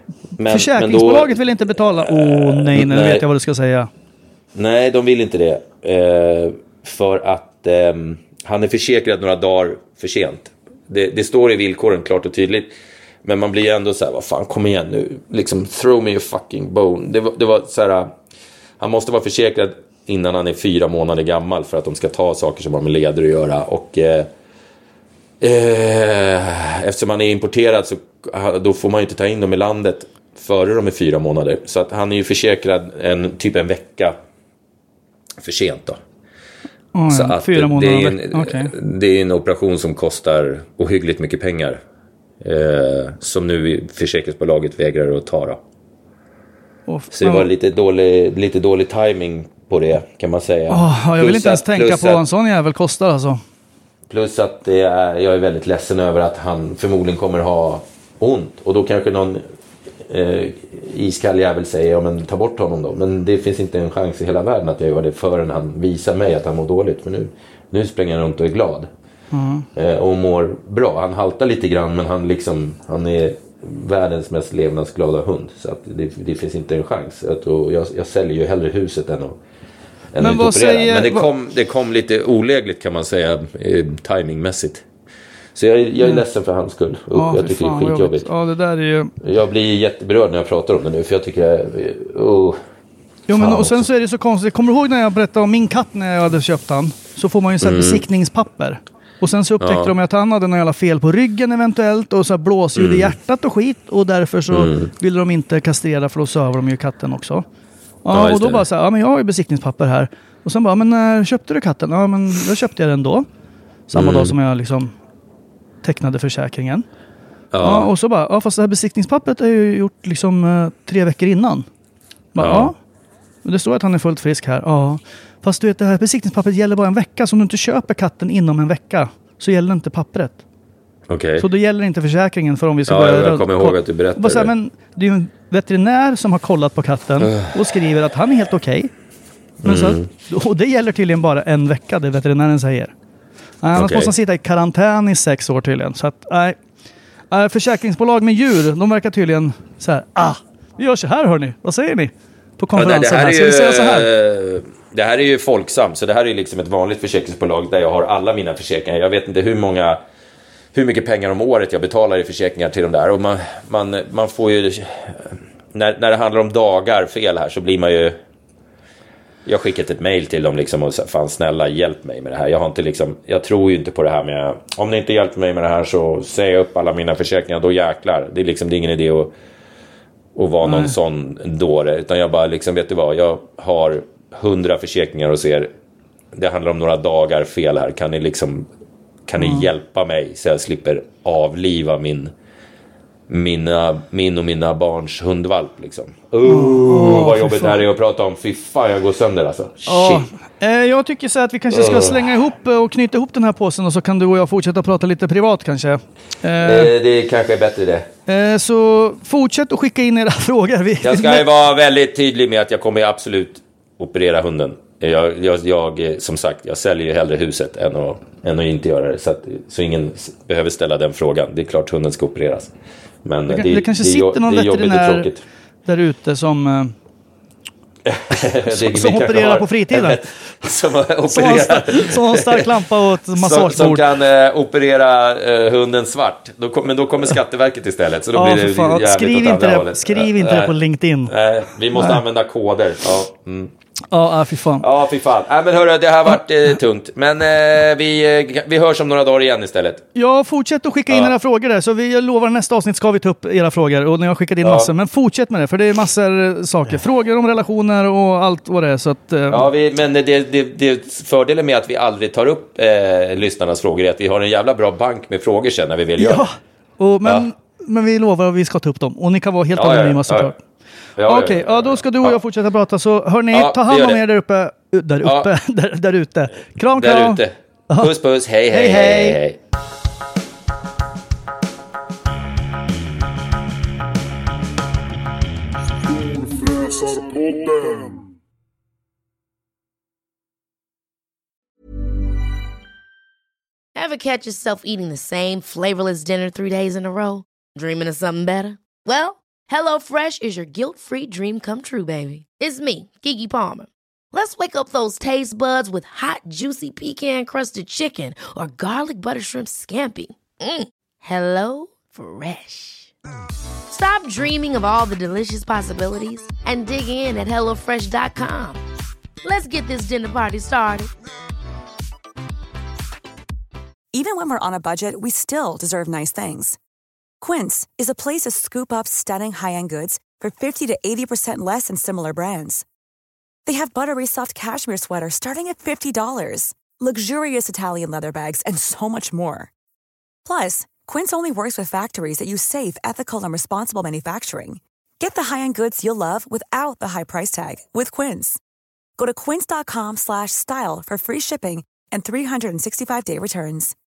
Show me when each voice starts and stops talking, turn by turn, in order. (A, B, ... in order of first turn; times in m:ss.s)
0:00.4-0:01.4 A
0:00.5-0:03.9 B
0:02.0-0:03.3 A
0:04.5-0:12.7 A
0:13.2-0:18.1 A
0:18.8-0:24.3 A
0:25.4-0:34.2 A
0:35.4-0:36.0 A
0:37.0-0:38.7 B
0:37.1-0:41.8 A
0:42.4-0:45.6 A
0:46.9-0:47.5 B
0:47.1-0:52.2 A
0:50.7-0:53.4 B
0:54.1-0:59.4 A
1:00.0-1:08.9 A
1:09.3-1:09.7 B
1:09.7-1:19.4 A
1:20.1-1:24.8 A
1:20.2-1:21.3 B
1:25.6-1:28.3 A
1:27.1-1:29.1 B
1:29.2-1:32.6 A
1:33.3-1:47.4 B
1:33.3-1:33.8 A
1:37.6-1:38.0 A
1:39.6-1:39.9 A
1:42.8-1:43.2 A
1:44.5-1:44.9 A
1:48.0-1:53.3 B
1:48.1-1:48.6 A
1:53.9-1:54.9 B
1:53.9-1:54.3 A
1:55.8-1:56.8 B
1:57.5-1:57.9 A
1:57.6-2:01.7 B
2:02.3-2:02.8 B
2:02.4-2:02.7 A
2:03.4-2:10.4 B
2:11.1-2:11.5 A
2:11.4-2:18.9 B
2:12.9-2:14.5 A
2:17.2-2:17.5 A
2:19.6-2:20.1 A
2:19.6-2:22.9 B
2:23.6-2:26.6 B
2:23.8-2:24.1 A
2:27.3-2:34.1 B
2:32.7-2:40.0 A
2:40.7-2:48.2 A
2:49.4-2:59.3 A
3:00.4-3:05.7 A
3:00.6-3:01.0 B
3:06.3-3:08.7 A
3:09.3-3:12.3 A
3:09.4-3:09.7 B
3:13.3-3:20.3 A
3:16.4-3:17.8 B
3:19.9-3:26.9 B
3:21.7-3:22.2 A
3:26.6-3:28.1 A
3:28.3-3:31.5 B
3:31.0-3:42.7 A
3:43.2-3:45.4 A
3:43.5-3:45.3 B
3:45.9-3:46.9 B
3:48.0-3:52.8 A
3:48.7-3:50.2 B
3:51.3-3:54.0 B
3:53.3-4:00.7 A
3:58.3-4:01.3 B
4:01.3-4:03.7 A
4:01.9-4:02.2 B
4:04.1-4:04.9 B
4:04.8-4:10.0 A
4:10.2-4:19.7 B
4:14.6-4:14.9 A
4:19.5-4:26.5 A
4:26.2-4:30.6 B
4:29.8-4:30.5 A
4:31.2-4:32.4 A
4:31.2-4:38.1 B
4:33.5-4:34.2 A
4:35.2-4:35.5 A
4:36.9-4:39.6 A
4:38.7-4:39.4 B
4:54.0-5:13.1 C
5:13.9-5:18.8 C
5:19.4-5:21.1 C
5:24.1-5:26.8 D
5:27.4-5:32.8 D
5:33.6-5:39.7 D
5:40.4-5:48.6 D
5:49.2-5:53.9 D